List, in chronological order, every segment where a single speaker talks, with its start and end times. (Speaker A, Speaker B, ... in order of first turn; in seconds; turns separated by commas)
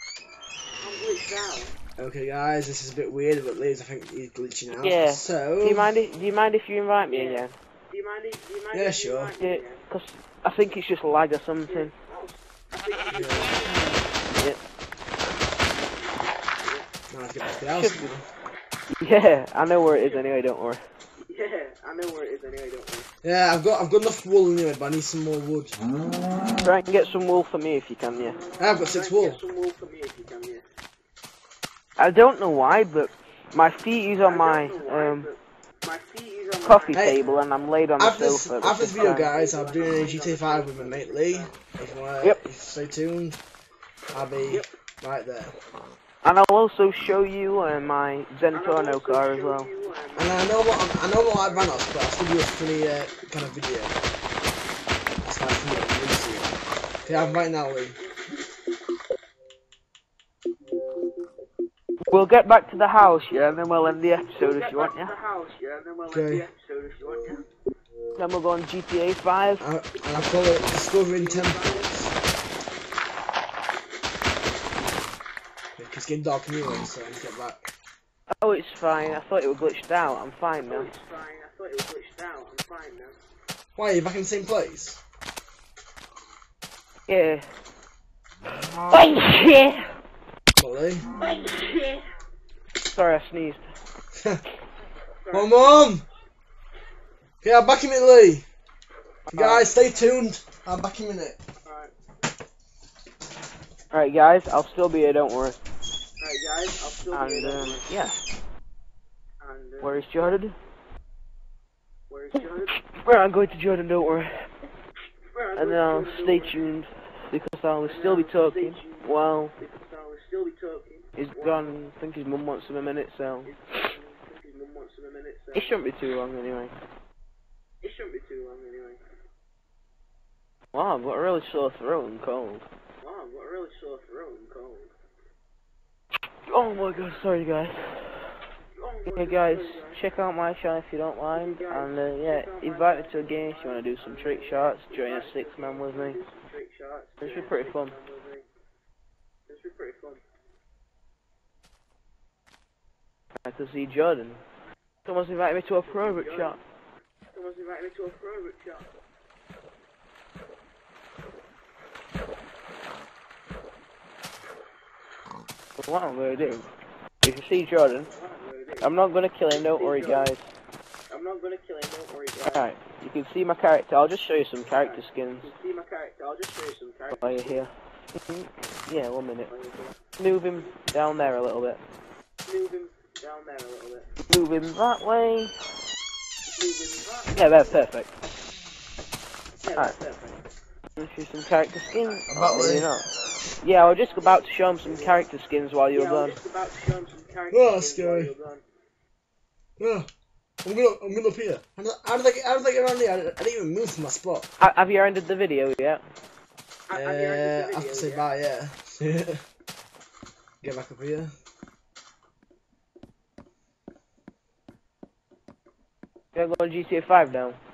Speaker A: 0.8-1.7, Speaker B: 2.0-5.9, Speaker C: 4.8-7.5, Speaker A: 7.1-9.8, Speaker B: 8.7-9.3, Speaker C: 9.4-11.9, Speaker A: 11.7-14.0, Speaker B: 13.1-13.7, Speaker A: 16.5-16.9, Speaker B: 17.1-18.2, Speaker C: 17.7-18.1, Speaker C: 18.9-20.8, Speaker A: 19.9-20.3, Speaker A: 21.2-23.1, Speaker B: 23.2-25.8, Speaker C: 26.6-28.4, Speaker A: 28.2-30.6, Speaker B: 28.6-29.4, Speaker C: 32.0-35.3, Speaker A: 34.2-37.2, Speaker C: 36.6-39.3, Speaker B: 36.9-37.2, Speaker B: 38.0-43.4, Speaker A: 39.1-41.6, Speaker B: 44.1-45.5, Speaker C: 46.2-49.7, Speaker A: 48.5-51.9, Speaker B: 50.1-54.0, Speaker B: 55.2-58.0, Speaker C: 62.1-65.1, Speaker A: 64.3-67.4, Speaker B: 66.1-66.5, Speaker C: 68.2-69.6, Speaker B: 69.6-72.1, Speaker A: 71.0-72.0, Speaker B: 75.8-77.6, Speaker C: 78.4-80.9, Speaker A: 80.7-83.2, Speaker B: 83.8-85.0, Speaker C: 87.1-87.5, Speaker C: 88.8-89.9, Speaker B: 90.6-91.0, Speaker C: 91.2-91.5, Speaker A: 91.2-92.0, Speaker C: 92.8-93.6, Speaker B: 94.1-94.4, Speaker A: 95.2-95.8, Speaker B: 95.3-96.0, Speaker B: 97.4-98.5, Speaker B: 99.3-101.4, Speaker C: 99.3-99.7, Speaker A: 101.6-101.9, Speaker C: 103.9-105.6, Speaker A: 106.2-107.9, Speaker C: 107.1-108.2, Speaker A: 109.4-110.4, Speaker C: 109.8-110.5, Speaker A: 112.1-112.7, Speaker C: 112.7-114.5, Speaker A: 115.3-116.7, Speaker C: 115.5-119.5, Speaker A: 117.8-121.8, Speaker C: 121.2-123.5, Speaker A: 123.4-125.8, Speaker C: 125.5-126.7, Speaker A: 127.8-129.0, Speaker C: 130.7-132.7, Speaker A: 133.0-134.9, Speaker C: 136.5-138.4, Speaker A: 138.7-140.0, Speaker C: 139.1-146.2, Speaker A: 141.3-148.4, Speaker C: 147.2-147.9, Speaker A: 149.5-150.2, Speaker C: 153.4-154.4, Speaker C: 155.1-156.6, Speaker A: 155.8-156.6, Speaker A: 157.3-158.9, Speaker C: 165.8-166.7, Speaker C: 167.2-168.1, Speaker A: 168.1-168.9, Speaker C: 168.8-170.4, Speaker A: 169.5-170.3, Speaker A: 171.1-172.7, Speaker C: 172.4-175.5, Speaker A: 174.6-177.7, Speaker C: 177.1-179.5, Speaker A: 179.5-180.7, Speaker C: 180.2-181.8, Speaker A: 182.4-184.1, Speaker C: 184.2-185.5, Speaker A: 186.5-187.9, Speaker C: 187.3-188.1, Speaker A: 189.6-190.4, Speaker C: 191.0-193.1, Speaker A: 191.9-192.2, Speaker B: 192.3-192.9, Speaker C: 193.6-196.4, Speaker A: 193.7-195.3, Speaker A: 195.9-198.6, Speaker B: 197.5-198.3, Speaker B: 199.8-200.1, Speaker B: 200.6-204.5, Speaker C: 204.6-206.0, Speaker A: 206.9-208.3, Speaker B: 206.9-209.4, Speaker B: 210.6-211.3, Speaker C: 216.3-217.6